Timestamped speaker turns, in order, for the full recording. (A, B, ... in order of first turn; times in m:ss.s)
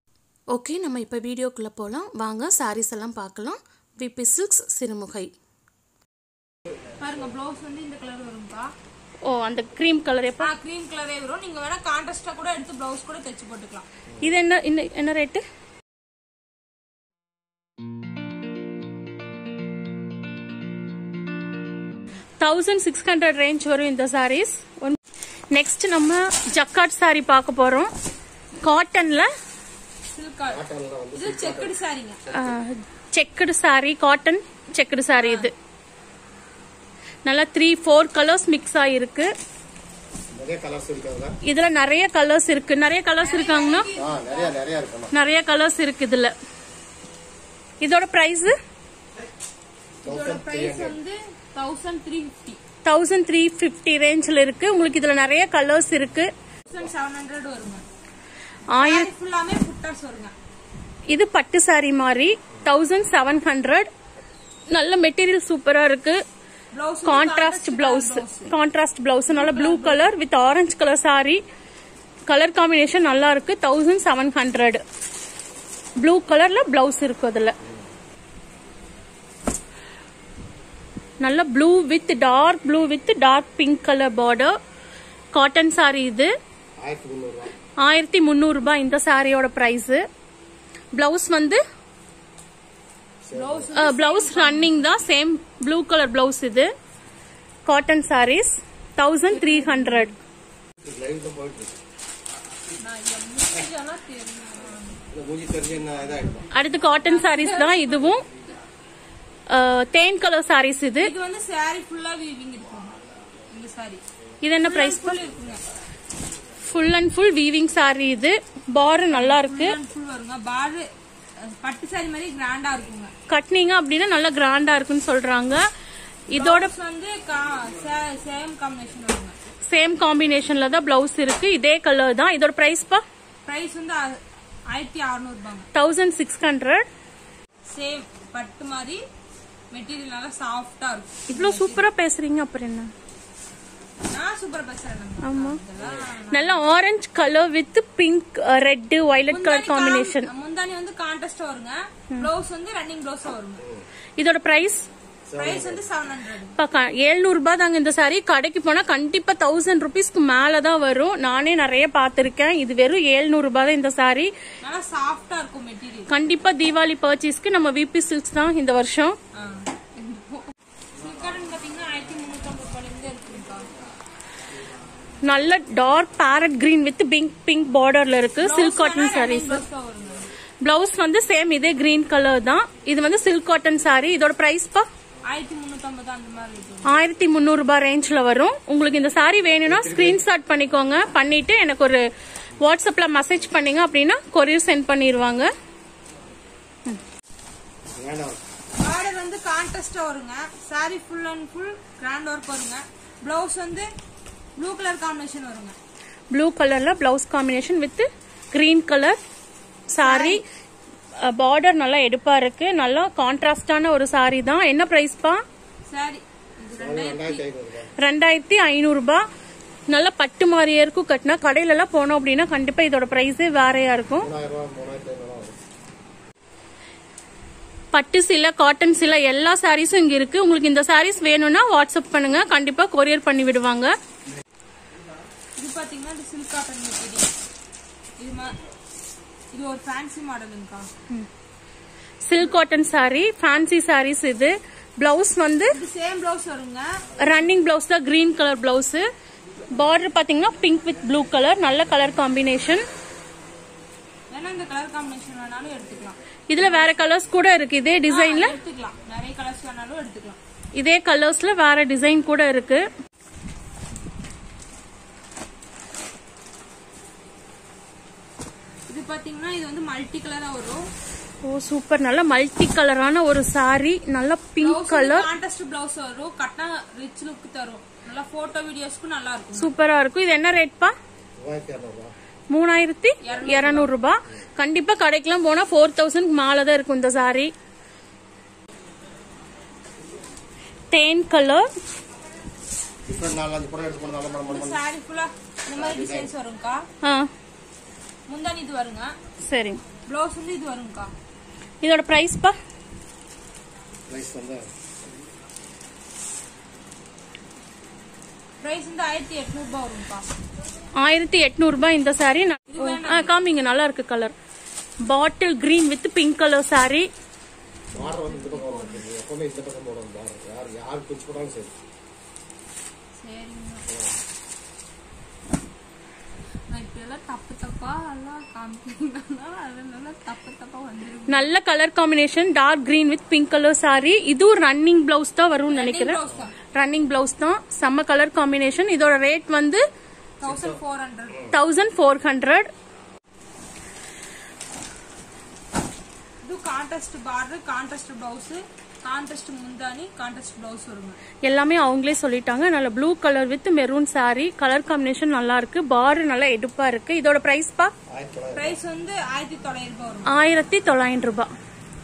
0:00.5-0:05.3 A
0:07.0-0:08.7 B
0:09.2-0:10.5 A
0:10.4-0:13.9 B
0:14.2-0:15.4 A
0:22.4-0:25.0 A
0:25.5-0:27.9 A
0:28.6-0:29.3 A
0:30.1-0:30.6 B
0:30.5-0:31.7 C
0:31.2-0:32.2 B
0:32.3-0:35.5 A
0:35.2-0:35.5 B
0:37.2-0:39.3 A
0:40.3-0:41.4 C
0:41.4-0:43.9 A
0:43.2-0:44.6 B
0:44.0-0:45.1 C
0:45.1-0:46.3 A
0:47.8-0:48.6 A
0:50.0-0:52.6 B
0:50.0-0:51.0 C
0:52.8-0:56.3 A
0:56.7-0:57.8 B
0:58.7-0:59.1 A
0:58.8-1:00.3 B
1:01.1-1:03.9 A
1:04.7-1:06.2 A
1:06.7-1:08.5 B
1:07.0-1:11.4 A
1:09.3-1:10.1 B
1:12.3-1:14.8 A
1:16.0-1:17.6 A
1:21.2-1:24.6 A
1:25.3-1:26.3 A
1:26.8-1:27.5 C
1:27.8-1:30.0 A
1:31.0-1:31.6 A
1:33.2-1:33.7 C
1:33.3-1:34.9 B
1:33.8-1:36.7 A
1:37.6-1:40.1 A
1:39.3-1:40.1 B
1:40.8-1:41.8 C
1:42.8-1:45.0 B
1:45.1-1:46.5 C
1:46.5-1:48.2 A
1:47.0-1:48.1 B
1:49.5-1:51.1 A
1:51.0-1:53.0 B
1:53.5-1:54.0 B
1:54.4-1:55.2 A
1:54.6-1:55.6 B
1:56.6-1:59.8 A
1:59.1-2:00.9 B
2:01.6-2:03.1 B
2:03.3-2:05.6 A
2:06.3-2:06.7 A
2:06.3-2:09.4 B
2:09.7-2:13.0 A
2:13.5-2:14.2 B
2:14.7-2:15.7 B
2:15.7-2:16.9 A
2:17.7-2:19.0 B
2:19.7-2:21.9 B
2:21.3-2:22.9 A
2:24.1-2:26.6 B
2:25.2-2:25.6 A
2:26.3-2:30.3 A
2:29.3-2:33.6 B
2:34.2-2:34.8 A
2:35.3-2:35.8 C
2:35.4-2:36.6 B
2:36.6-2:44.3 A
2:44.6-2:46.1 B
2:46.1-2:49.2 A
2:49.4-2:53.7 B
2:55.2-2:59.6 A
2:58.4-3:00.3 B
3:00.6-3:04.9 A
3:05.3-3:07.0 B
3:06.8-3:12.0 A
3:09.6-3:10.2 C
3:12.6-3:15.5 A
3:17.9-3:18.4 C
3:18.8-3:23.9 B
3:24.6-3:25.8 B
3:26.3-3:29.2 A
3:29.9-3:30.4 A
3:30.0-3:30.4 B
3:31.2-3:35.4 A
3:35.9-3:37.4 B
3:36.8-3:37.9 C
3:38.0-3:39.2 A
3:39.9-3:44.3 A
3:44.2-3:45.6 C
3:47.9-3:53.9 A
3:55.6-3:57.3 B
3:58.2-3:58.6 B
3:59.5-4:00.9 B
4:02.2-4:05.8 A
4:05.7-4:06.9 B
4:07.2-4:09.0 A
4:09.7-4:12.8 A
4:14.3-4:16.2 B
4:16.5-4:18.6 A
4:18.1-4:20.4 B
4:20.8-4:22.9 A
4:28.9-4:30.8 B
4:31.4-4:35.3 A
4:34.6-4:39.7 B
4:39.6-4:40.9 A
4:41.4-4:42.1 C
4:42.5-4:47.5 A
4:43.2-4:43.9 B
4:50.9-4:51.6 A
4:53.1-4:54.8 C
4:54.5-4:56.8 B
4:55.8-4:56.3 C
4:57.0-4:57.3 A
4:58.3-4:59.1 B
4:59.4-4:59.8 A
5:00.1-5:01.1 B
5:01.8-5:02.6 A
5:04.1-5:04.7 C
5:08.6-5:10.3 B
5:11.0-5:14.4 A
5:12.7-5:13.3 B
5:15.1-5:17.1 A
5:17.9-5:19.0 B
5:17.9-5:21.7 C
5:23.2-5:23.8 B
5:26.7-5:31.5 B
5:31.3-5:36.2 A
5:35.7-5:36.6 B
5:36.7-5:39.8 A
5:40.4-5:41.5 B
5:41.5-5:42.7 A
5:46.4-5:51.2 B
5:51.4-5:57.9 A
5:58.1-5:58.8 C
5:58.5-6:00.3 B
6:00.3-6:01.5 A